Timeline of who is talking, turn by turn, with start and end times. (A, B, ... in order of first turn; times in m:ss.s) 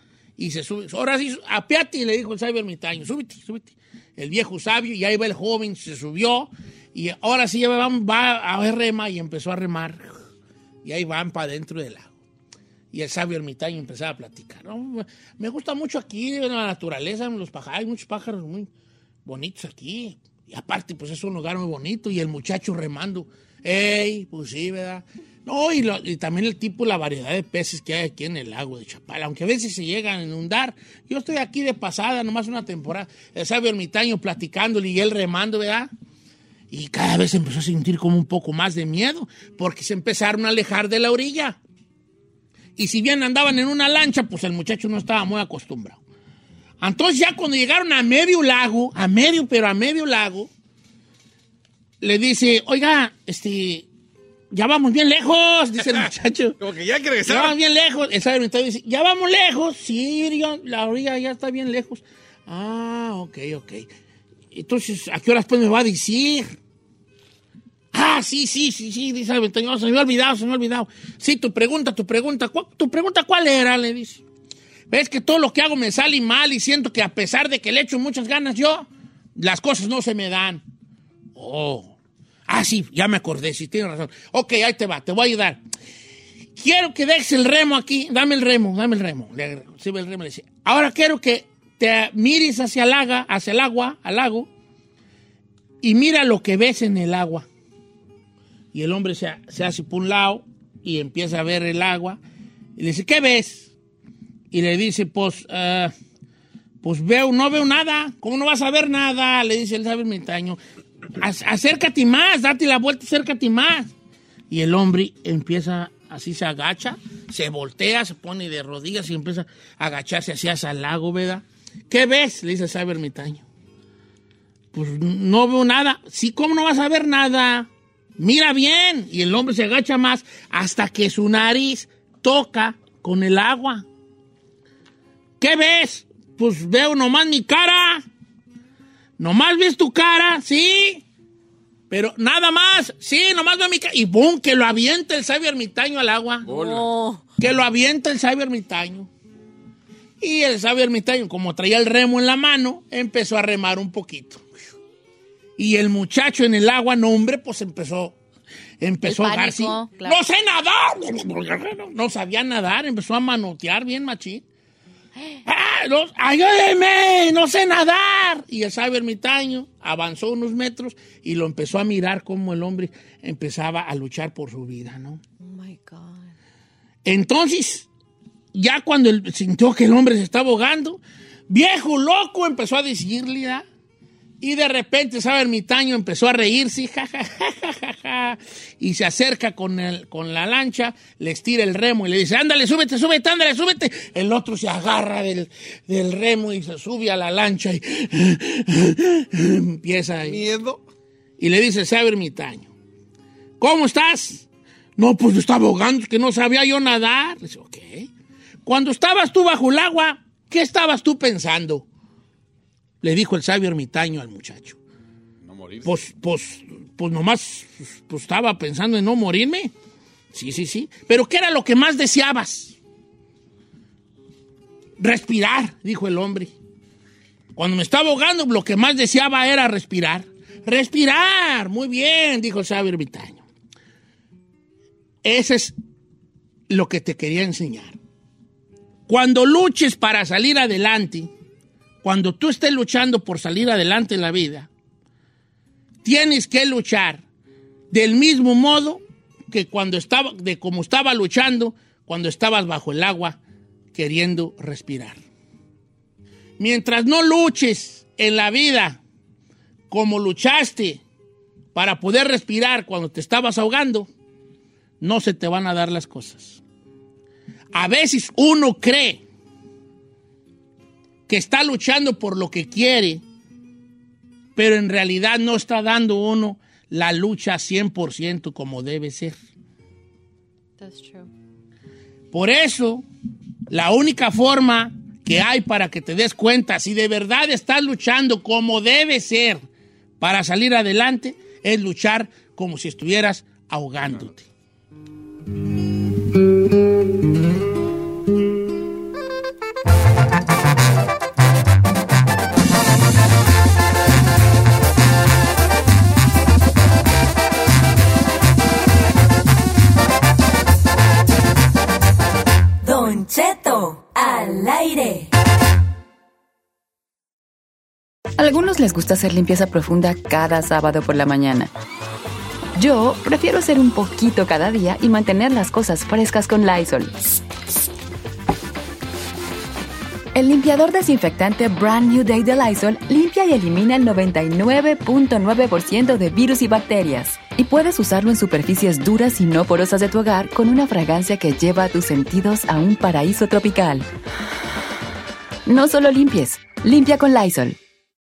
0:00.4-0:10.2 A
0:10.8-0:12.1 A
0:12.9-0:18.7 A
0:19.2-0:35.9 A
0:36.7-0:41.6 A
0:42.8-0:46.0 A
0:46.8-0:50.5 A
0:52.0-0:53.9 A
0:54.5-0:56.6 A
0:56.6-0:57.6 B
0:57.2-1:03.9 A
1:04.5-1:06.5 A
1:07.9-1:14.2 A
1:14.9-1:20.6 A
1:21.4-1:22.0 A
1:22.5-1:25.6 A
1:26.6-1:34.5 A
1:35.8-1:37.5 A
1:38.7-1:42.2 A
1:42.8-1:43.7 A
1:44.5-1:45.9 A
1:46.8-1:50.6 A
1:51.2-1:53.9 A
1:54.5-2:03.4 A
2:04.7-2:13.8 A
2:15.4-2:18.0 A
2:19.2-2:21.0 A
2:21.9-2:26.5 A
2:26.4-2:26.9 B
2:26.4-2:27.2 C
2:27.4-2:29.1 A
2:30.2-2:34.5 A
2:35.6-2:38.2 A
2:38.8-2:44.4 A
2:39.0-2:40.2 C
2:45.5-2:55.2 A
2:55.4-2:56.3 C
2:57.0-2:57.9 A
2:58.5-3:03.6 A
3:04.4-3:20.4 A
3:20.2-3:20.8 B
3:21.4-3:22.7 A
3:23.6-3:24.5 A
3:25.0-3:28.1 A
3:28.6-3:31.8 A
3:33.0-3:34.8 A
3:35.4-3:36.0 B
3:35.8-3:39.7 A
3:40.3-3:42.8 A
3:45.0-3:46.5 A
3:47.6-3:53.4 A
3:55.2-3:55.8 A
3:56.7-3:58.0 A
3:59.1-4:01.3 A
4:02.0-4:04.7 A
4:06.0-4:07.2 A
4:07.9-4:13.4 A
4:13.9-4:15.2 A
4:16.6-4:19.0 A
4:19.9-4:21.0 A
4:21.8-4:24.1 A
4:25.0-4:26.6 A
4:27.7-4:29.2 A
4:31.3-4:33.2 A
4:34.6-4:39.4 A
4:40.8-4:41.3 C
4:42.3-4:43.0 A
4:43.7-4:49.6 A
4:50.2-4:54.4 A
4:54.0-4:54.3 B
5:12.8-5:15.3 D
5:18.4-5:21.7 E
5:22.8-5:27.1 E
5:30.4-5:44.1 E
5:45.7-5:47.8 E